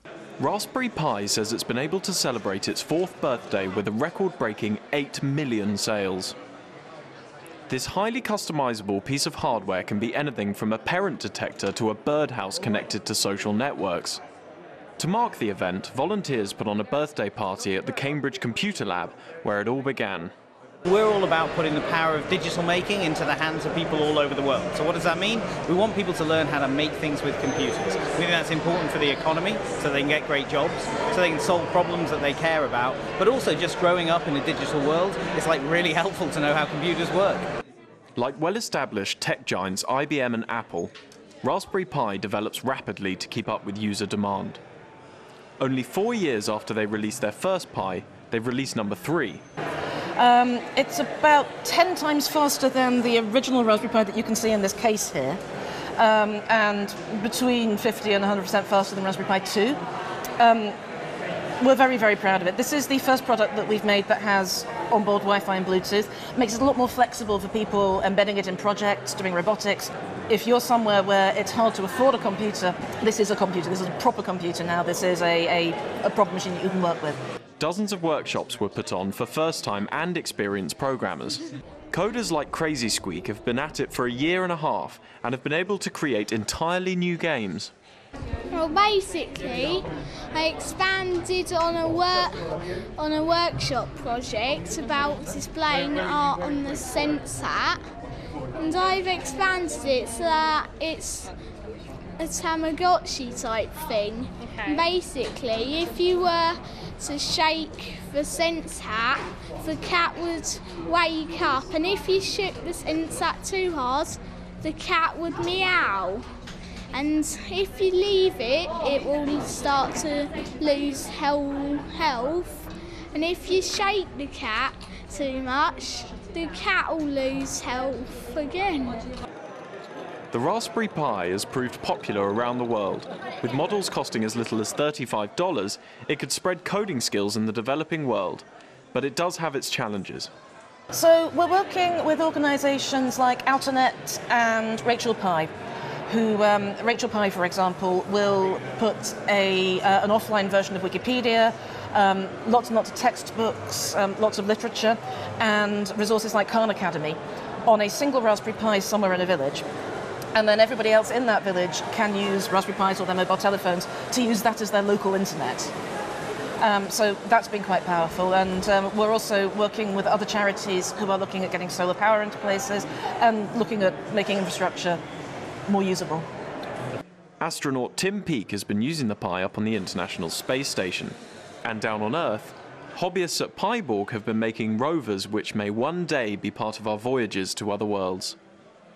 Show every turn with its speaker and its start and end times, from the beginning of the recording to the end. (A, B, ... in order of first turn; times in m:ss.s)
0:00.4-0:06.4 A
0:07.7-0:14.2 A
0:15.0-0:20.3 A
0:20.9-0:37.4 B
0:38.2-0:44.6 A
0:45.6-0:49.4 A
0:50.2-0:55.4 C
0:56.0-0:59.8 C
1:00.4-1:00.8 C
1:01.6-1:17.2 C
1:17.6-1:27.7 A
1:28.5-1:32.4 D
1:33.0-1:37.8 D
1:38.6-1:41.3 D
1:42.2-1:56.2 D
1:56.9-2:09.0 D
2:10.3-2:20.3 A
2:20.9-2:25.5 C
2:26.1-2:39.6 C
2:40.3-2:45.7 C
2:46.6-2:55.0 C
2:55.7-2:56.2 C
2:57.4-3:08.4 A